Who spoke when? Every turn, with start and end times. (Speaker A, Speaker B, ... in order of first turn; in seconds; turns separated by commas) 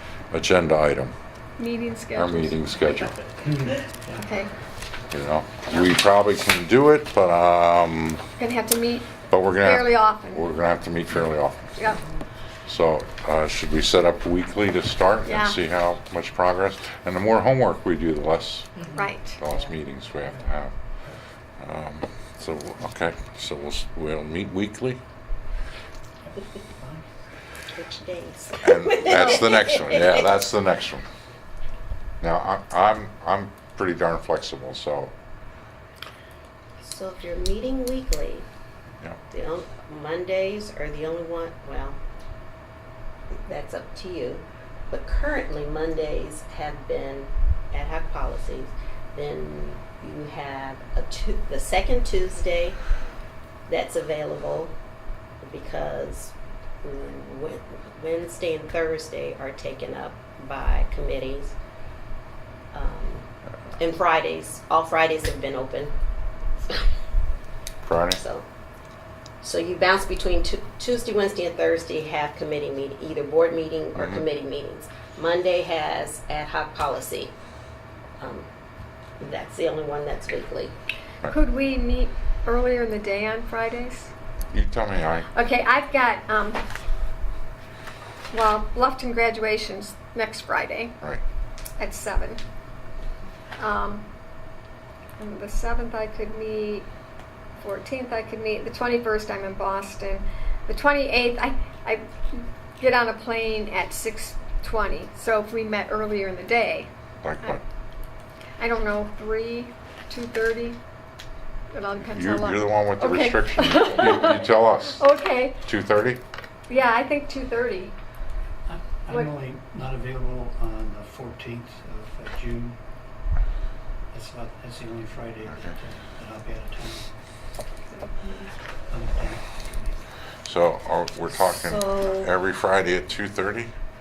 Speaker A: 0.3-1.1, Speaker B: 1.6-2.6, Speaker A: 2.1-3.2, Speaker C: 3.4-4.2, Speaker B: 4.2-4.5, Speaker A: 5.1-8.2, Speaker B: 8.4-9.1, Speaker A: 9.3-11.9, Speaker B: 9.6-10.5, Speaker A: 12.7-20.7, Speaker B: 15.3-15.6, Speaker B: 19.0-19.4, Speaker A: 21.6-25.0, Speaker C: 26.2-27.0, Speaker D: 27.8-30.4, Speaker A: 28.6-31.1, Speaker A: 32.2-35.1, Speaker D: 36.8-38.5, Speaker D: 39.3-42.0, Speaker D: 43.4-52.8, Speaker D: 53.7-54.7, Speaker D: 55.4-61.5, Speaker D: 62.7-63.3, Speaker D: 63.8-65.9, Speaker A: 67.8-68.2, Speaker D: 68.1-68.5, Speaker D: 69.4-77.3, Speaker A: 74.0-74.2, Speaker D: 78.2-78.5, Speaker D: 79.2-80.8, Speaker B: 81.3-84.1, Speaker A: 84.5-85.3, Speaker B: 85.3-86.6, Speaker B: 88.3-91.0, Speaker B: 91.8-92.4, Speaker B: 93.6-94.0, Speaker B: 95.2-96.9, Speaker B: 97.6-106.9, Speaker A: 107.2-107.6, Speaker B: 108.6-110.8, Speaker B: 111.7-115.6, Speaker A: 112.0-115.0, Speaker A: 115.6-116.2, Speaker B: 116.7-117.9, Speaker C: 118.7-122.8, Speaker C: 124.1-127.1, Speaker C: 128.9-130.0, Speaker A: 130.4-133.7, Speaker D: 131.3-132.3